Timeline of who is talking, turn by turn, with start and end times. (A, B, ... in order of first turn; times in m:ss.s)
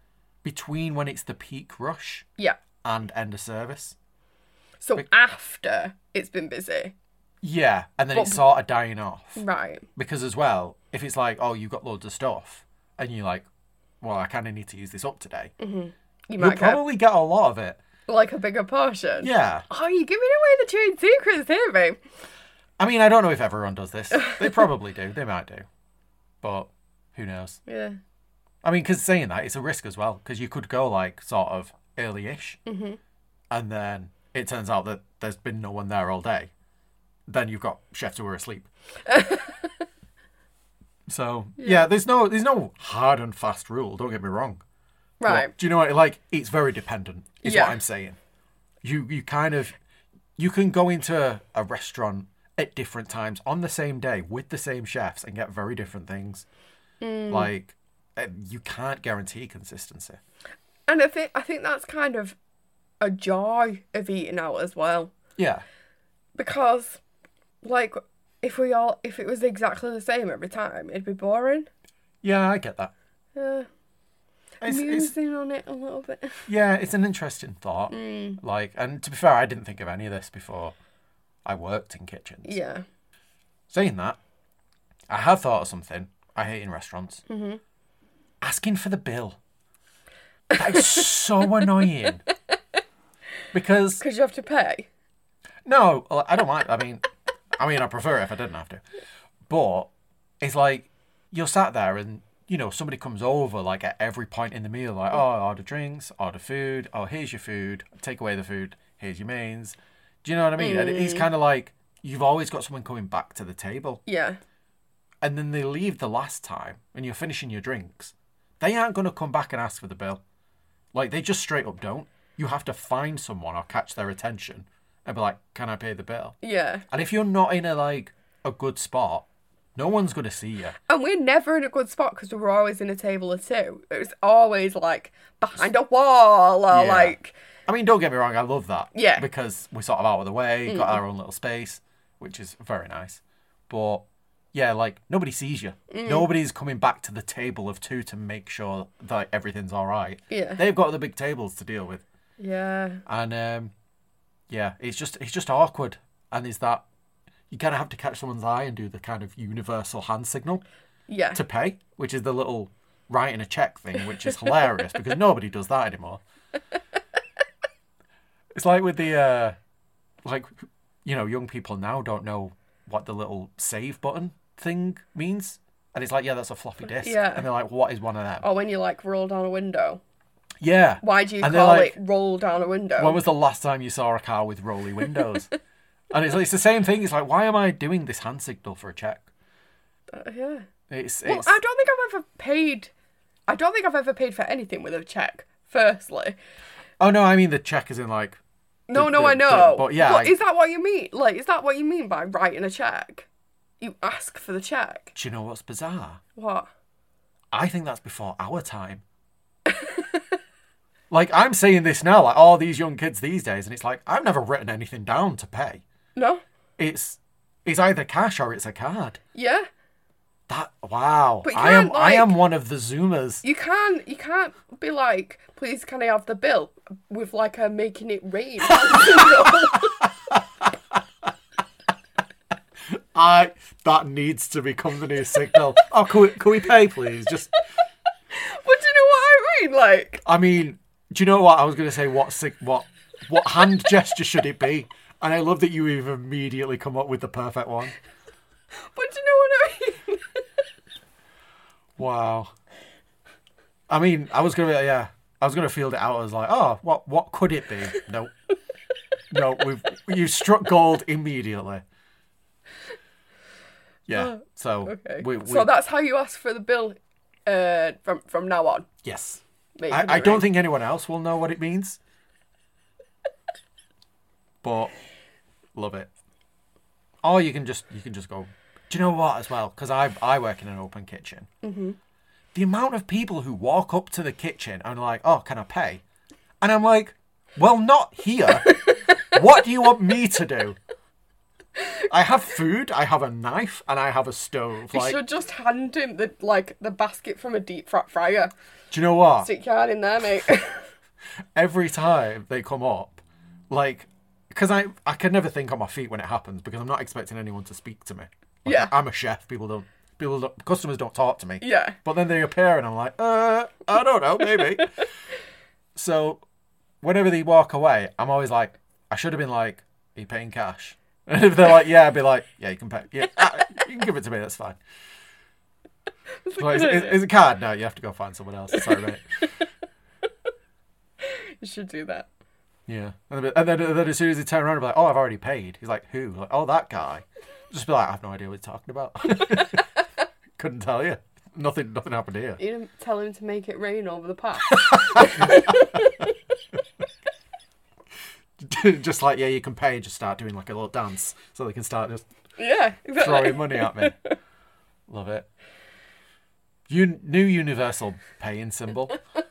0:00.4-0:02.2 A
0:02.8-0:04.0 A
0:04.8-0:06.9 B
0:07.4-0:09.4 A
0:08.1-0:08.4 B
0:09.4-0:09.8 B
0:10.0-0:13.4 A
0:14.0-0:15.5 A
0:15.6-0:16.8 B
0:16.4-0:17.8 A
0:18.1-0:22.0 B
0:19.2-0:19.7 A
0:22.8-0:25.6 A
0:24.1-0:24.6 B
0:26.4-0:27.6 A
0:27.6-0:28.0 B
0:28.6-0:32.6 A
0:32.6-0:33.0 B
0:33.5-0:36.5 A
0:37.3-0:38.7 A
0:39.0-0:39.8 B
0:41.1-0:44.6 A
0:41.6-0:41.8 B
0:45.2-0:45.5 B
0:45.2-0:48.2 A
0:47.4-0:47.8 B
0:48.8-0:49.7 A
0:50.4-0:56.4 A
0:57.0-0:57.5 B
0:57.3-1:00.2 A
1:00.9-1:02.4 B
1:03.0-1:05.1 B
1:05.4-1:05.6 A
1:06.3-1:07.0 B
1:07.6-1:11.7 B
1:12.2-1:12.9 A
1:13.3-1:13.7 B
1:14.6-1:15.1 A
1:14.6-1:16.4 B
1:16.4-1:20.7 A
1:17.9-1:18.4 B
1:21.4-1:22.6 A
1:22.4-1:22.8 B
1:23.7-1:24.2 A
1:25.1-1:27.2 A
1:27.3-1:27.6 B
1:28.4-1:29.4 A
1:30.5-1:32.2 A
1:30.7-1:31.0 B
1:33.5-1:34.0 A
1:34.0-1:34.9 B
1:35.6-1:38.8 A
1:39.5-1:39.9 A
1:40.4-1:54.0 A
1:50.6-1:51.3 B
1:54.0-1:54.4 B
1:55.2-2:00.2 A
2:00.9-2:06.4 A
2:06.4-2:06.8 B
2:06.9-2:10.8 A
2:10.9-2:17.3 B
2:16.7-2:17.2 A
2:17.7-2:32.0 A
2:18.9-2:19.2 B
2:20.6-2:21.0 B
2:25.9-2:26.3 B
2:30.3-2:30.6 B
2:32.4-2:33.0 B
2:33.0-2:33.7 A
2:34.5-2:36.8 A
2:37.5-2:40.6 A
2:41.1-2:41.4 B
2:41.3-2:46.2 A
2:48.6-2:49.6 A
2:50.2-2:58.4 A
2:57.0-2:57.4 B
2:58.4-3:00.0 B
3:00.6-3:02.0 A
3:01.0-3:03.2 B
3:03.0-3:05.5 A
3:06.1-3:09.3 A
3:10.1-3:10.6 B
3:10.9-3:11.6 A
3:11.2-3:12.9 B
3:13.5-3:16.4 B
3:17.0-3:18.4 A
3:18.9-3:23.3 B
3:18.9-3:20.4 A
3:23.8-3:25.1 B
3:25.1-3:26.2 A
3:26.4-3:26.7 B
3:27.5-3:29.0 A
3:29.7-3:30.2 B
3:31.1-3:35.8 A
3:36.1-3:36.4 B
3:36.8-3:39.2 A
3:39.3-3:39.7 B
3:40.5-3:43.4 A
3:41.4-3:42.4 B
3:43.4-3:50.0 B
3:48.9-3:49.5 A
3:50.0-3:50.6 A
3:52.9-3:57.6 A
3:58.3-4:00.2 B
4:00.2-4:08.0 A
4:08.8-4:10.6 B
4:12.0-4:12.5 A
4:13.9-4:18.3 A
4:19.3-4:21.8 A
4:24.1-4:25.7 A
4:24.1-4:28.9 B
4:29.0-4:32.0 A
4:29.8-4:30.5 B
4:34.6-4:34.9 A
4:35.7-4:36.1 A
4:37.2-4:41.5 A
4:41.6-4:42.0 B
4:42.5-4:46.0 A
4:46.6-4:50.8 A
4:48.6-4:49.1 B
4:52.1-4:55.2 A
4:54.9-4:58.5 B
4:58.9-4:59.5 A
4:59.4-5:00.9 B
5:01.5-5:15.0 A
5:08.6-5:08.9 B
5:11.6-5:12.0 B
5:14.4-5:15.0 B
5:15.9-5:16.4 A
5:17.0-5:24.8 A
5:26.4-5:27.2 B
5:26.5-5:29.2 A
5:31.2-5:32.3 B
5:32.9-5:39.8 A
5:40.6-5:42.6 A
5:42.6-5:46.3 B
5:44.7-5:46.2 A
5:48.6-5:52.3 A
5:52.6-5:54.3 B
5:53.2-5:54.1 A
5:55.1-5:55.5 A
5:56.9-5:59.2 A